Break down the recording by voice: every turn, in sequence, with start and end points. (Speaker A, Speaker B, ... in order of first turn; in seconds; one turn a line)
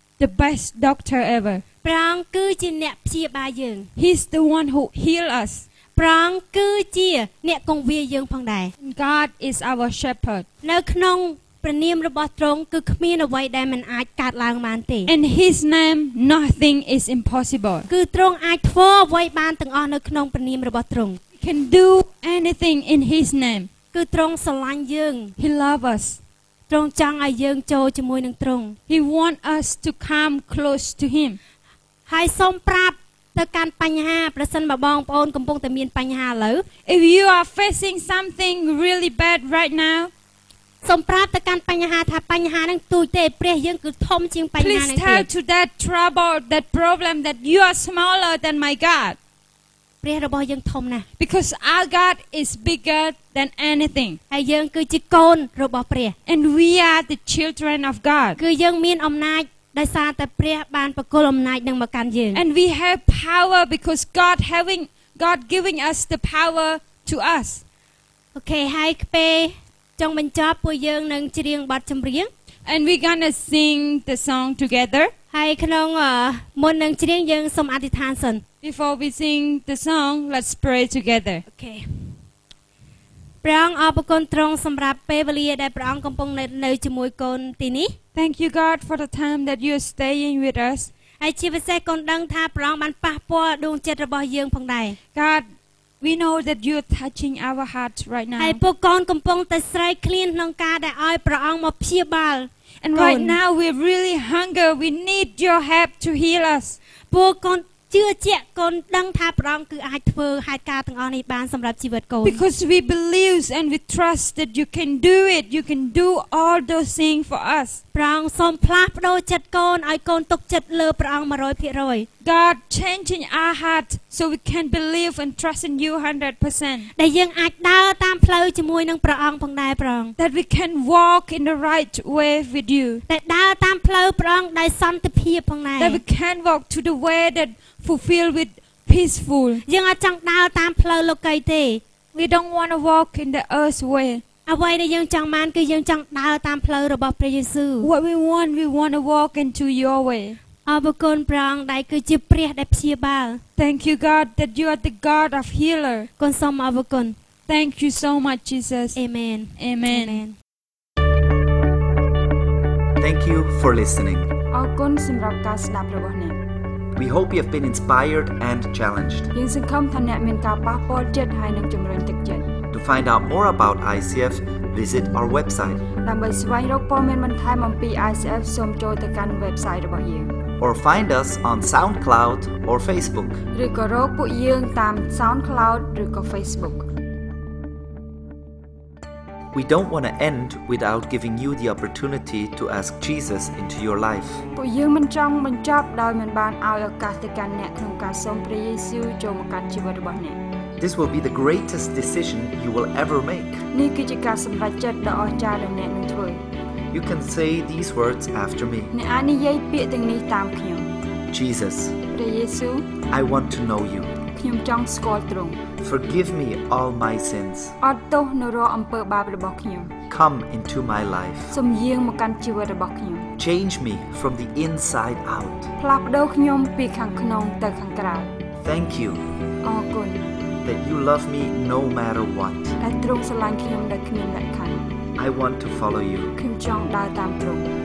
Speaker A: 0.2-1.6
Speaker B: 1.8-3.9
Speaker A: 4.0-5.6
Speaker B: 5.9-8.7
Speaker A: 8.8-10.4
Speaker B: 10.6-15.1
Speaker A: 15.1-17.9
Speaker B: 17.9-21.2
Speaker A: 21.4-23.7
Speaker B: 23.9-25.3
Speaker A: 25.4-26.2
Speaker B: 26.7-28.8
Speaker A: 28.9-31.4
Speaker B: 32.1-36.6
Speaker A: 36.9-40.1
Speaker B: 40.8-45.2
Speaker A: 44.6-49.2
Speaker B: 50.0-51.0
Speaker A: 51.2-54.2
Speaker B: 54.3-56.1
Speaker A: 56.2-58.4
Speaker B: 58.4-62.4
Speaker A: 62.3-67.6
Speaker B: 68.3-72.3
Speaker A: 72.7-75.1
Speaker B: 75.3-78.4
Speaker A: 78.6-81.4
Speaker B: 81.5-82.0
Speaker B: 83.4-87.9
Speaker A: 88.1-90.9
Speaker B: 91.2-95.0
Speaker A: 95.1-95.5
Speaker A: 96.0-98.6
Speaker B: 98.4-103.4
Speaker A: 102.8-106.8
Speaker B: 107.1-112.4
Speaker A: 112.2-117.8
Speaker B: 117.9-122.1
Speaker A: 122.2-126.9
Speaker B: 127.0-130.1
Speaker A: 130.2-133.0
Speaker B: 133.1-136.0
Speaker A: 135.8-139.6
Speaker B: 139.7-141.8
Speaker A: 142.1-144.2
Speaker B: 144.4-147.9
Speaker A: 147.8-150.4
Speaker B: 150.7-153.4
Speaker A: 153.6-156.1
Speaker B: 156.2-157.2
Speaker A: 157.5-159.0
Speaker B: 158.9-160.3
Speaker A: 159.6-160.2
Speaker C: 163.0-164.3
Speaker D: 164.5-166.4
Speaker C: 166.9-169.3
Speaker D: 169.3-172.6
Speaker C: 172.7-175.8
Speaker D: 176.0-180.4
Speaker C: 180.6-183.4
Speaker D: 183.5-186.9
Speaker C: 189.5-194.4
Speaker D: 194.6-200.4
Speaker C: 200.8-203.6
Speaker D: 203.7-206.4
Speaker C: 206.9-208.9
Speaker D: 208.9-210.9
Speaker C: 211.3-212.0
Speaker D: 212.1-213.0
Speaker C: 213.1-214.2
Speaker D: 214.3-215.6
Speaker C: 215.8-217.8
Speaker D: 217.8-219.9
Speaker C: 220.1-221.5
Speaker D: 221.5-223.3
Speaker C: 223.4-225.7
Speaker D: 225.8-228.3
Speaker C: 228.6-229.2
Speaker D: 229.6-230.3
Speaker C: 230.6-232.8
Speaker D: 232.8-234.8
Speaker C: 235.2-236.3
Speaker D: 236.4-237.7